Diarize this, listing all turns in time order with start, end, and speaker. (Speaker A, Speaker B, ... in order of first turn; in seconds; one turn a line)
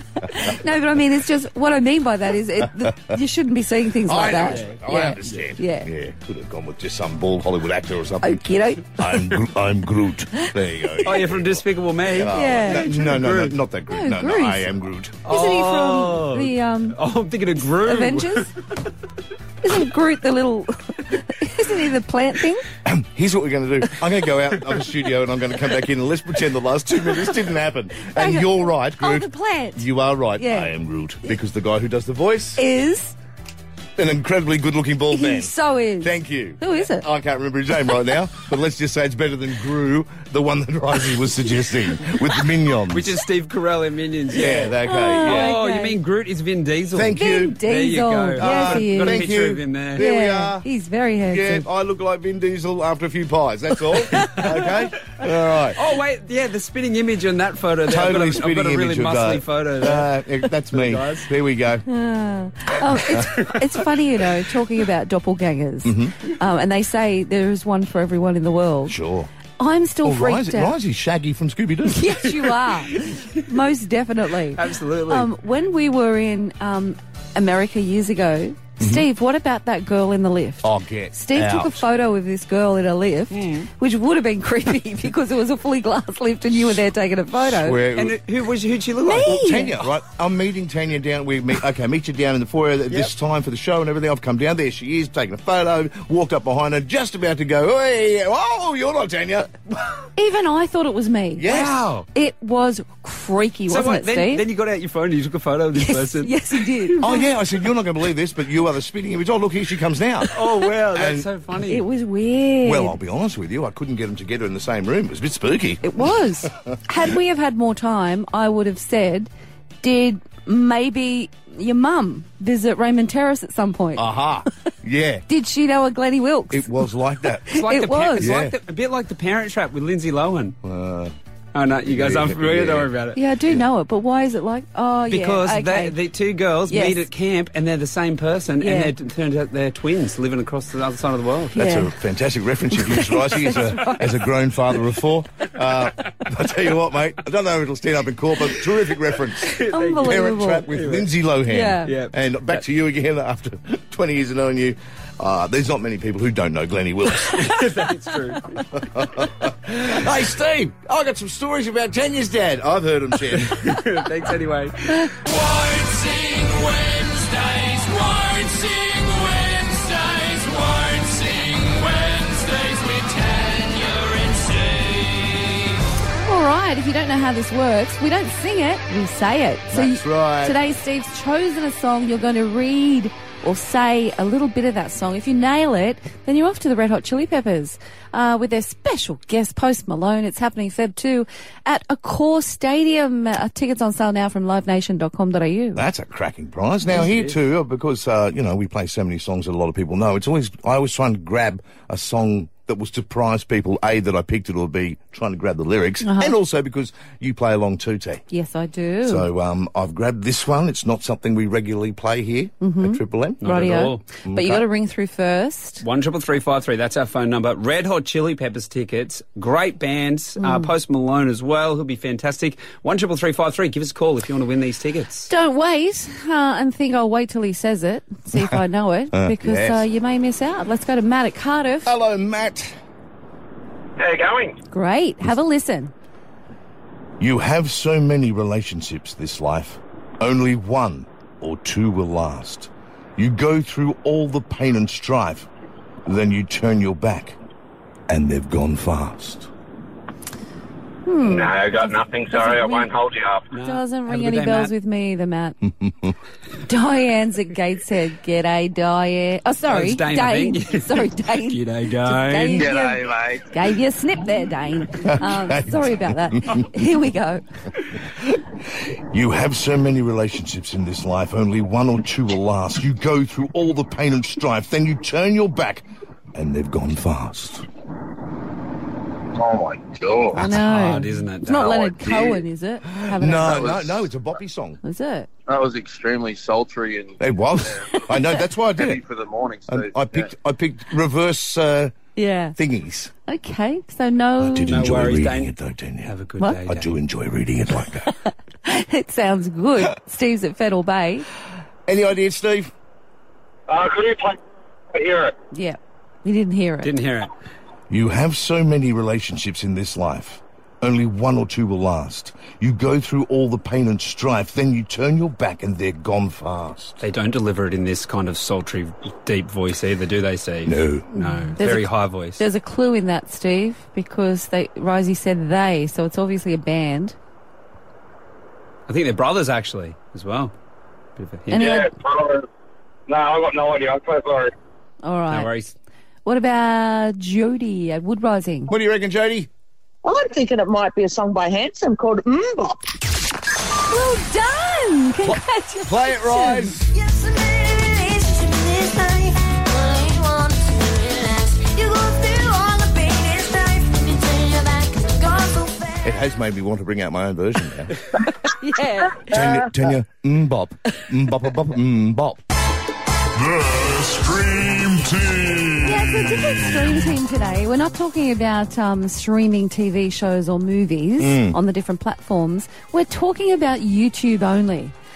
Speaker A: 0.2-5.9
Speaker B: 2.8-3.2
Speaker B: 4.0-15.2
Speaker C: 4.4-5.4
Speaker A: 8.2-9.3
Speaker C: 11.0-13.6
Speaker A: 12.3-12.9
Speaker A: 13.9-14.7
Speaker C: 15.2-18.5
Speaker A: 15.3-17.0
Speaker A: 17.8-18.5
Speaker A: 19.6-22.6
Speaker B: 22.8-32.6
Speaker A: 28.0-29.8
Speaker A: 30.4-30.7
Speaker A: 32.6-33.1
Speaker B: 34.0-43.2
Speaker A: 35.1-37.0
Speaker C: 42.9-50.0
Speaker B: 44.3-45.5
Speaker A: 44.8-46.0
Speaker B: 46.9-47.6
Speaker A: 47.2-49.3
Speaker B: 48.4-50.7
Speaker A: 50.0-51.6
Speaker B: 51.3-55.8
Speaker A: 54.3-54.7
Speaker C: 55.7-60.1
Speaker B: 57.9-61.9
Speaker C: 60.7-61.3
Speaker A: 61.9-68.9
Speaker B: 62.9-63.3
Speaker B: 65.8-66.1
Speaker B: 68.9-69.3
Speaker A: 69.6-70.7
Speaker B: 70.0-72.3
Speaker A: 71.9-87.8
Speaker C: 74.5-75.3
Speaker B: 78.8-79.0
Speaker B: 80.6-81.8
Speaker C: 83.3-83.7
Speaker B: 86.5-86.8
Speaker B: 87.3-88.2
Speaker C: 88.0-89.3
Speaker A: 89.0-89.8
Speaker B: 89.2-99.6
Speaker A: 100.2-101.5
Speaker B: 101.3-101.9
Speaker C: 101.5-102.0
Speaker A: 102.1-104.4
Speaker C: 103.7-107.0
Speaker A: 105.8-107.3
Speaker B: 107.0-110.3
Speaker C: 110.3-111.8
Speaker B: 110.8-111.3
Speaker A: 111.7-112.9
Speaker B: 112.6-116.7
Speaker A: 115.8-119.3
Speaker A: 119.8-124.1
Speaker B: 124.0-125.2
Speaker A: 125.3-126.8
Speaker B: 126.5-127.5
Speaker A: 127.5-128.3
Speaker C: 127.5-130.6
Speaker B: 128.2-128.5
Speaker B: 130.6-131.1
Speaker C: 131.5-133.2
Speaker B: 131.8-132.9
Speaker A: 133.1-135.9
Speaker C: 135.1-141.6
Speaker A: 136.7-137.1
Speaker A: 138.6-138.9
Speaker B: 141.5-157.9
Speaker A: 141.5-141.9
Speaker A: 142.7-144.2
Speaker C: 149.5-151.1
Speaker A: 149.7-150.7
Speaker A: 151.5-151.9
Speaker C: 151.8-152.6
Speaker C: 157.2-158.8
Speaker B: 158.8-163.7
Speaker C: 163.3-165.2
Speaker D: 165.2-175.2
Speaker C: 167.8-168.3
Speaker C: 168.8-169.3
Speaker A: 176.1-195.8
Speaker B: 179.7-180.6
Speaker B: 195.7-208.2
Speaker C: 196.9-197.3
Speaker A: 206.0-206.3
Speaker A: 208.3-209.3
Speaker B: 209.0-213.5
Speaker A: 212.6-215.8
Speaker C: 213.4-214.0
Speaker B: 214.2-214.6
Speaker C: 215.8-225.3
Speaker A: 220.4-220.7
Speaker A: 225.3-231.9
Speaker B: 229.1-229.8
Speaker B: 231.8-232.8
Speaker E: 234.0-234.6
Speaker A: 234.7-235.9
Speaker B: 237.2-245.5
Speaker B: 246.1-247.4
Speaker B: 248.1-249.5
Speaker A: 251.0-252.9
Speaker E: 251.2-253.4
Speaker C: 253.5-254.7
Speaker A: 253.6-255.6
Speaker B: 255.6-256.1
Speaker A: 256.6-267.4
Speaker C: 259.7-262.7
Speaker E: 262.5-263.6
Speaker B: 265.1-266.8
Speaker B: 268.2-277.6
Speaker E: 279.3-280.5
Speaker A: 280.3-283.7
Speaker C: 280.4-281.9
Speaker E: 281.5-282.4
Speaker B: 282.8-284.8
Speaker E: 283.4-284.4
Speaker A: 284.8-285.3
Speaker E: 285.5-290.3
Speaker B: 287.2-289.0
Speaker B: 289.7-291.9
Speaker A: 292.1-292.6
Speaker B: 292.6-293.1
Speaker A: 293.2-294.8
Speaker B: 294.4-298.1
Speaker C: 294.7-295.5
Speaker C: 296.0-296.9
Speaker A: 298.6-301.2
Speaker B: 301.9-302.7
Speaker E: 303.7-304.4
Speaker E: 304.9-305.3
Speaker A: 305.5-306.9
Speaker C: 306.8-307.3
Speaker B: 307.9-317.0
Speaker C: 317.0-322.4
Speaker B: 320.6-321.1
Speaker A: 321.1-327.1
Speaker C: 328.9-330.5
Speaker C: 331.2-331.8
Speaker A: 331.5-331.9
Speaker E: 331.5-332.4
Speaker E: 333.1-334.5
Speaker A: 335.0-335.5
Speaker C: 335.3-335.7
Speaker A: 336.2-338.7
Speaker B: 338.7-339.5
Speaker F: 340.0-342.8
Speaker A: 343.9-346.7
Speaker B: 345.2-346.9
Speaker G: 346.9-356.2
Speaker B: 356.0-357.9
Speaker A: 358.4-359.5
Speaker B: 359.3-362.4
Speaker B: 363.9-365.4
Speaker A: 365.8-374.9
Speaker B: 371.2-371.6